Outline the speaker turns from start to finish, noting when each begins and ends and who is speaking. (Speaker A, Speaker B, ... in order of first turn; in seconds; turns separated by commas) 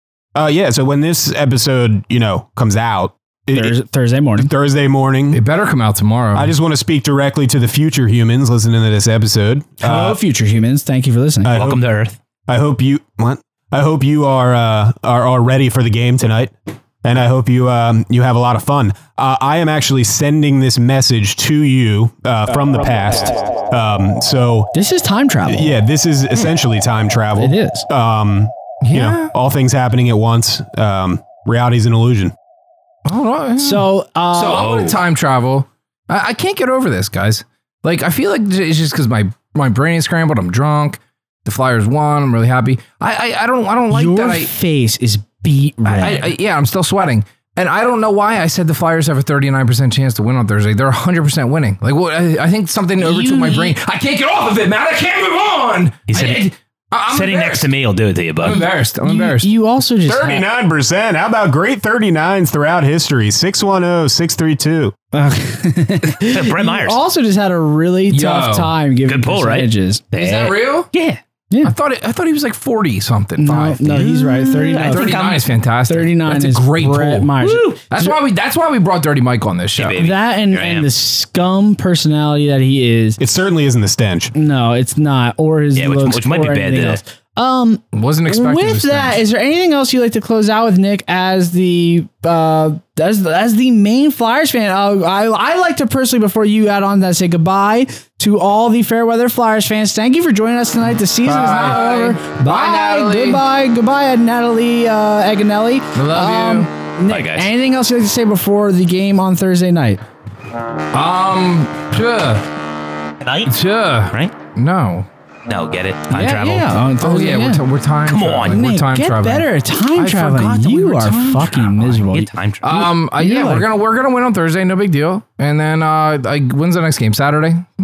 Speaker A: 0.3-3.8, Speaker B: 3.5-4.5, Speaker A: 4.4-5.4, Speaker C: 5.3-6.5, Speaker A: 6.3-10.2, Speaker B: 9.8-11.6, Speaker A: 11.4-11.8, Speaker D: 11.5-12.2, Speaker A: 12.5-24.7, Speaker B: 24.7-25.7, Speaker A: 25.5-32.3, Speaker B: 27.4-27.9, Speaker C: 28.8-29.3, Speaker C: 33.0-44.5, Speaker B: 33.6-34.7, Speaker D: 34.5-35.0, Speaker B: 43.9-46.3, Speaker C: 45.8-57.7, Speaker B: 53.0-53.7, Speaker D: 56.1-56.5, Speaker D: 57.1-58.7, Speaker C: 58.4-59.5, Speaker B: 59.0-60.4, Speaker A: 60.1-64.9, Speaker C: 60.1-60.4, Speaker B: 65.1-70.0, Speaker D: 66.2-67.0, Speaker C: 68.1-68.7, Speaker D: 69.0-71.2, Speaker C: 70.1-70.9, Speaker C: 71.6-74.0, Speaker B: 73.4-75.2, Speaker D: 73.8-75.4, Speaker C: 74.8-77.3, Speaker B: 75.9-78.1, Speaker D: 77.4-77.8, Speaker C: 77.9-80.0, Speaker D: 79.8-80.9, Speaker B: 80.0-83.2, Speaker A: 83.2-84.3, Speaker B: 84.3-110.0, Speaker D: 85.7-87.0, Speaker C: 87.9-89.2, Speaker C: 101.2-103.4, Speaker C: 105.9-106.7, Speaker D: 107.1-107.5, Speaker C: 110.9-112.5, Speaker D: 113.2-113.5, Speaker C: 113.5-115.1, Speaker D: 115.5-116.9, Speaker B: 116.1-117.6, Speaker C: 117.0-121.7, Speaker D: 118.0-118.6, Speaker B: 118.5-123.7, Speaker D: 121.7-122.9, Speaker C: 122.6-127.7